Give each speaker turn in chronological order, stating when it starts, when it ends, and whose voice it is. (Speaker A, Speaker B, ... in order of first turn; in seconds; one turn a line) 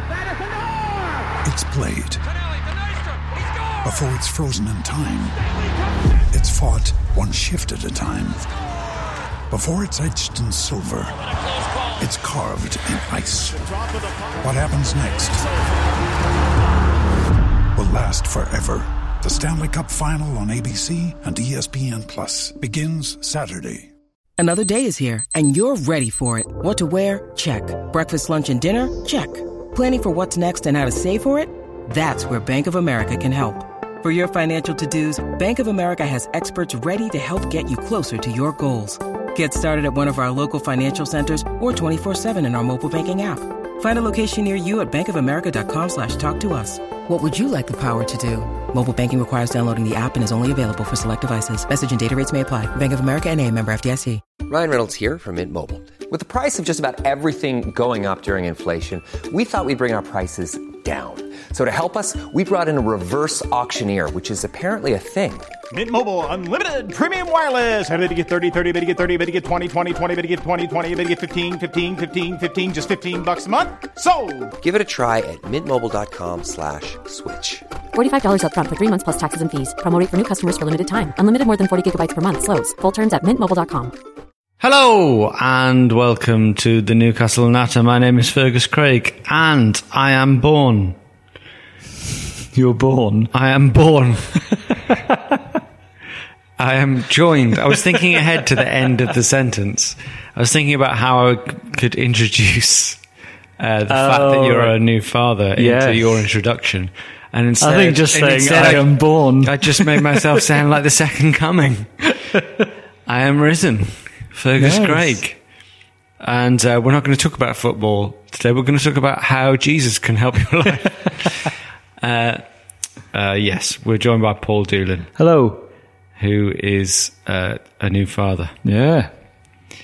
Speaker A: 1.4-2.2
Speaker A: 3.8-5.4
Speaker A: 6.3-8.4
Speaker A: 9.5-11.2
Speaker A: 12.0-13.6
Speaker A: 14.4-15.4
Speaker A: 17.8-23.9
Speaker B: 24.4-54.2
Speaker C: 54.5-65.5
Speaker D: 65.7-74.5
Speaker C: 74.6-77.6
Speaker E: 77.9-83.9
Speaker F: 84.6-91.0
Speaker G: 92.5-93.3
Speaker F: 93.3-94.5
Speaker G: 94.9-95.3
Speaker F: 96.6-103.0
Speaker F: 103.6-112.0
Speaker G: 103.9-104.8
Speaker G: 105.6-106.2
Speaker G: 107.6-110.2
Speaker F: 113.1-115.4
Speaker G: 114.6-115.2
Speaker F: 116.2-122.4
Speaker F: 123.1-125.1
Speaker G: 125.2-125.7
Speaker F: 126.2-128.6
Speaker G: 128.7-129.1